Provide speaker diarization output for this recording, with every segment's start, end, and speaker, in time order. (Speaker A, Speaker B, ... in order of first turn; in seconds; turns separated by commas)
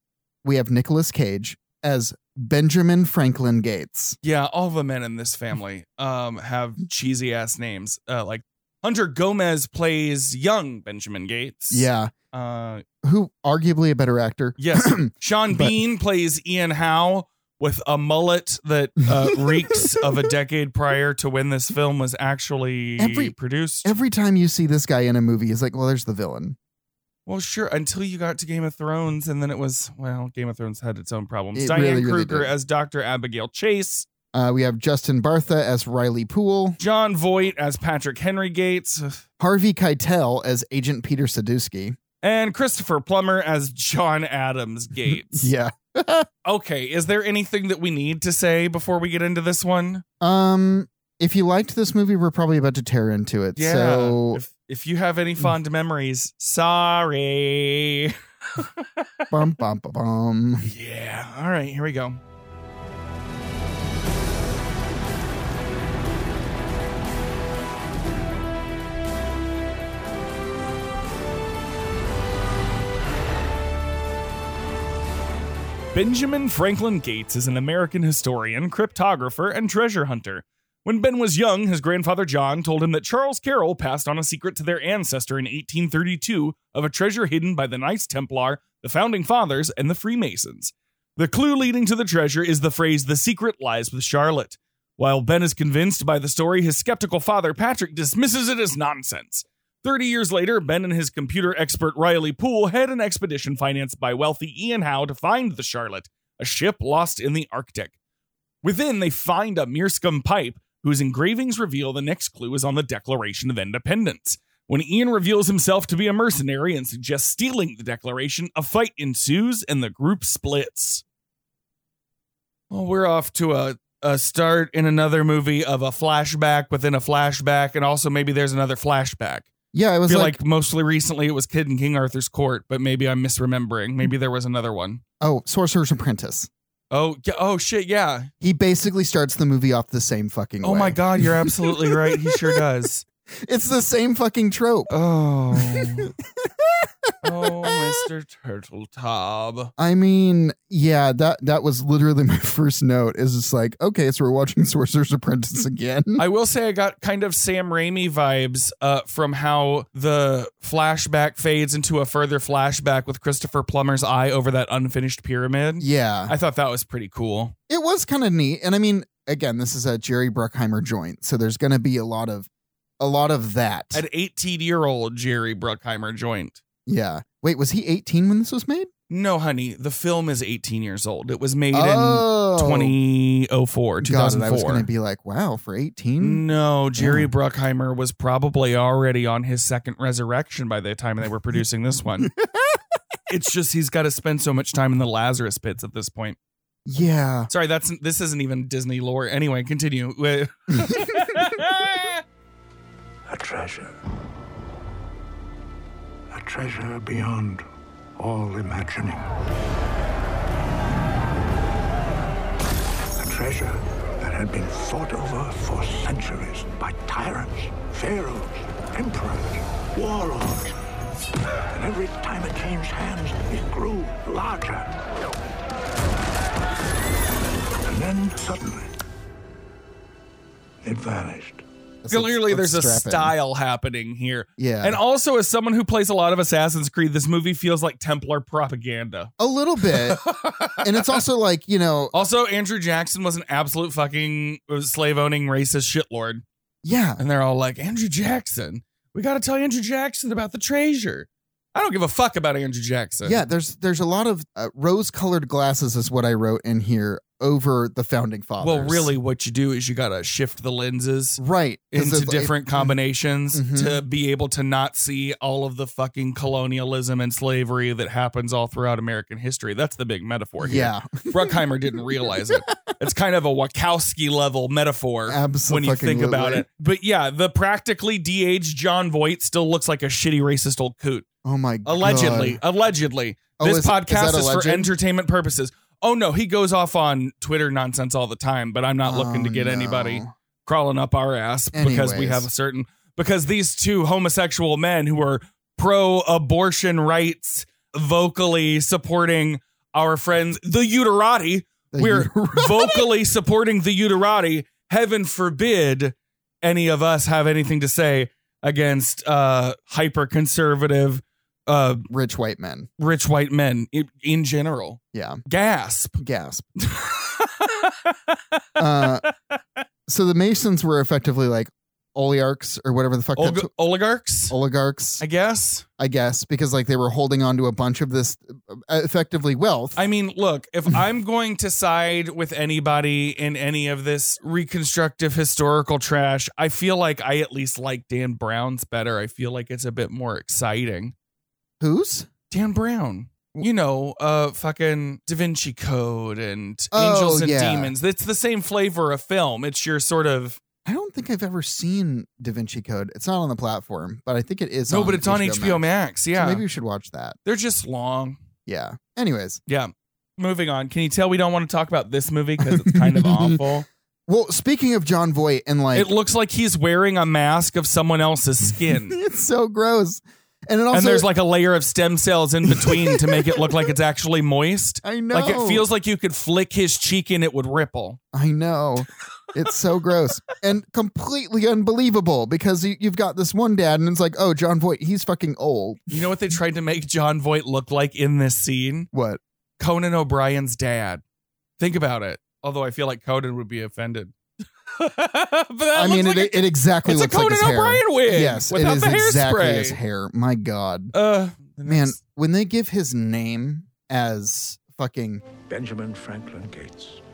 Speaker A: 0.4-4.2, Speaker B: 4.2-12.8, Speaker A: 11.7-12.1, Speaker A: 13.0-15.8, Speaker B: 14.6-23.9, Speaker A: 19.1-20.1, Speaker A: 23.0-26.6, Speaker B: 27.2-34.1, Speaker A: 31.6-32.5, Speaker A: 34.3-36.8, Speaker B: 36.8-39.2, Speaker A: 39.4-42.0, Speaker B: 42.2-45.5, Speaker A: 45.0-46.3, Speaker B: 46.4-50.0, Speaker A: 50.2-54.4, Speaker B: 53.6-59.0, Speaker A: 59.3-60.7, Speaker B: 60.7-62.2, Speaker B: 75.9-107.9, Speaker B: 108.6-121.0, Speaker B: 122.7-129.5, Speaker A: 129.7-130.4, Speaker B: 130.1-135.0, Speaker A: 135.2-136.5, Speaker B: 136.9-138.3, Speaker A: 138.4-142.6, Speaker B: 140.6-143.1, Speaker A: 143.3-144.9, Speaker B: 144.9-146.1, Speaker A: 145.5-147.9, Speaker B: 147.2-149.7, Speaker A: 149.8-156.2, Speaker B: 156.2-167.6, Speaker A: 165.8-166.3, Speaker A: 167.7-172.5, Speaker A: 173.0-174.0, Speaker B: 173.9-176.6, Speaker A: 176.8-178.9, Speaker B: 179.1-184.9, Speaker A: 181.7-182.9, Speaker A: 184.0-186.4, Speaker B: 186.2-192.3, Speaker A: 187.0-187.3, Speaker A: 192.2-192.8, Speaker B: 193.3-196.4, Speaker A: 196.8-197.5, Speaker B: 197.5-202.2, Speaker A: 200.8-201.2, Speaker C: 203.3-203.9, Speaker C: 206.3-207.6, Speaker C: 208.2-209.3, Speaker C: 213.2-220.7, Speaker C: 221.7-224.9, Speaker C: 227.8-228.9, Speaker C: 230.8-231.6, Speaker A: 232.0-233.3, Speaker B: 232.1-239.3, Speaker A: 234.6-235.0, Speaker A: 239.4-240.2, Speaker B: 239.9-240.8, Speaker A: 240.8-242.2, Speaker B: 242.1-246.4, Speaker A: 246.8-247.2, Speaker B: 247.2-253.4, Speaker A: 253.2-259.1, Speaker B: 258.6-261.4, Speaker A: 261.4-263.0, Speaker B: 261.9-281.3, Speaker A: 263.5-264.0, Speaker A: 270.6-272.8, Speaker A: 275.3-276.7, Speaker A: 281.4-282.6, Speaker B: 281.8-312.1, Speaker A: 283.6-284.9, Speaker A: 289.1-290.3, Speaker A: 291.7-292.5, Speaker A: 301.9-303.1, Speaker A: 312.1-312.9, Speaker B: 313.0-316.2, Speaker A: 315.1-315.4, Speaker A: 316.2-316.7, Speaker B: 316.8-318.1, Speaker A: 318.8-319.2, Speaker B: 319.0-319.3, Speaker A: 320.1-323.7, Speaker B: 323.4-324.6, Speaker A: 324.5-325.2, Speaker B: 325.2-325.9, Speaker A: 326.0-330.0, Speaker B: 329.9-341.1, Speaker A: 341.8-342.3, Speaker B: 342.5-350.6, Speaker A: 346.9-347.9, Speaker A: 350.8-357.4, Speaker B: 354.9-356.6, Speaker B: 357.4-358.4, Speaker A: 358.7-359.6, Speaker B: 359.7-363.9, Speaker A: 362.6-363.6, Speaker A: 364.3-366.1, Speaker B: 365.9-369.2, Speaker A: 368.7-371.3, Speaker B: 370.9-378.2, Speaker A: 372.7-373.7, Speaker A: 375.0-375.9, Speaker A: 378.3-386.1, Speaker B: 386.1-389.1, Speaker A: 389.1-389.4, Speaker B: 389.8-391.2, Speaker B: 391.8-394.3, Speaker B: 394.9-400.0, Speaker A: 395.9-401.1, Speaker B: 401.1-402.2, Speaker A: 401.8-405.4, Speaker C: 405.7-407.2